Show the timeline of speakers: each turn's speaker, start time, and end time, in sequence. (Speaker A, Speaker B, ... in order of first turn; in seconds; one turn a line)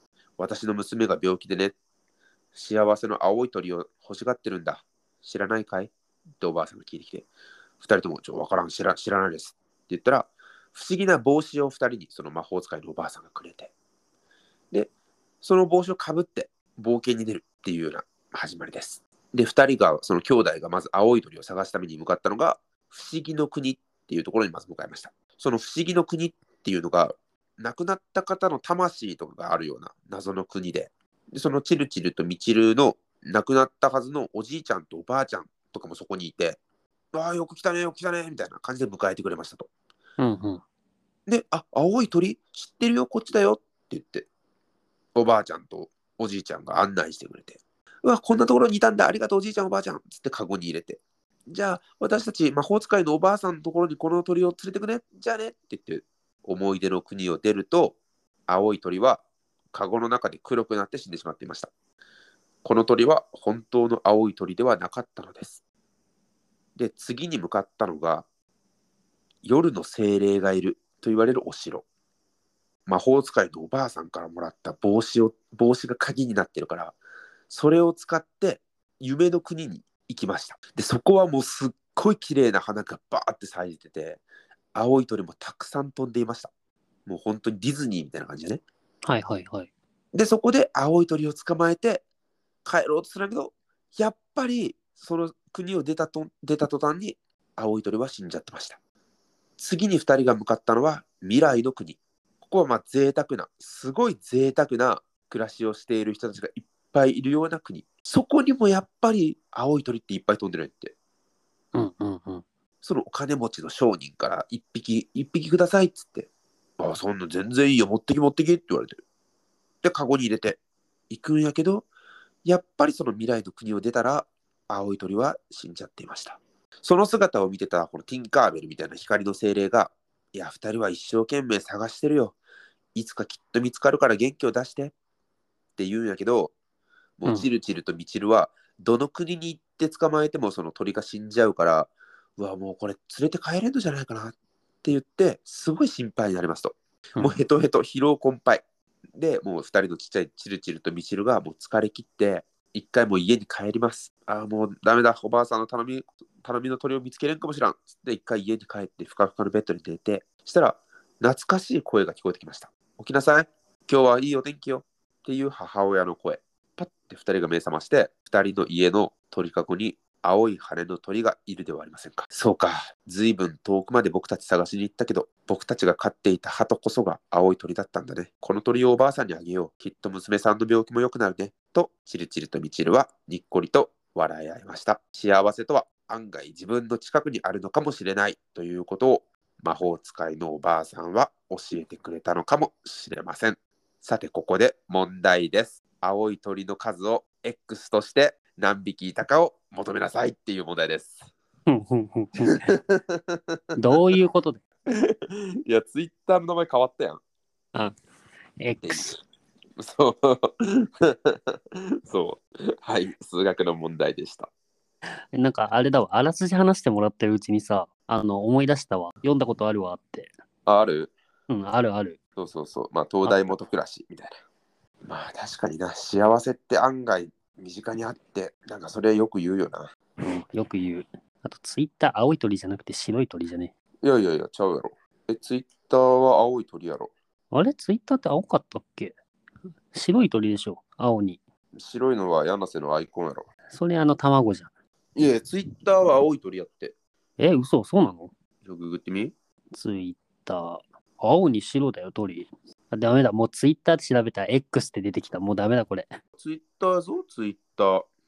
Speaker A: 0.4-1.8
Speaker A: 2.5-7.3
Speaker A: 7.8-13.7
Speaker A: 15.4-36.6
Speaker A: 37.1-39.7
Speaker B: 40.2-40.6
Speaker A: 41.3-44.3
Speaker A: 45.1-61.7
Speaker A: 62.6-65.6
Speaker A: 66.8-68.2
Speaker A: 69.4-71.8
Speaker A: 72.9-77.0
Speaker A: 77.5-84.2
Speaker A: 84.7-86.5
Speaker A: 87.1-88.6
Speaker B: 89.0-89.7
Speaker A: 90.1-92.0
Speaker A: 92.7-98.8
Speaker A: 99.6-111.0
Speaker B: 111.7-112.5
Speaker A: 112.8-119.0
Speaker A: 119.8-121.9
Speaker A: 122.5-132.4
Speaker A: 132.9-134.9
Speaker A: 135.8-136.5
Speaker A: 137.2-148.6
Speaker B: 147.2-147.4
Speaker A: 149.2-201.3
Speaker B: 201.7-202.7
Speaker A: 202.5-203.8
Speaker B: 203.8-204.6
Speaker A: 205.1-207.2
Speaker B: 208.6-209.2
Speaker A: 208.8-209.2
Speaker A: 209.8-214.5
Speaker B: 215.3-220.3
Speaker A: 220.7-221.1
Speaker B: 221.5-222.2
Speaker A: 222.4-224.4
Speaker B: 223.2-223.6
Speaker A: 225.1-229.9
Speaker B: 230.2-233.7
Speaker A: 234.0-237.1
Speaker B: 237.5-239.1
Speaker B: 239.9-241.4
Speaker A: 241.8-243.5
Speaker B: 243.7-244.7
Speaker A: 245.2-246.9
Speaker B: 247.4-248.3
Speaker A: 248.6-249.3
Speaker B: 249.7-256.2
Speaker A: 256.4-258.1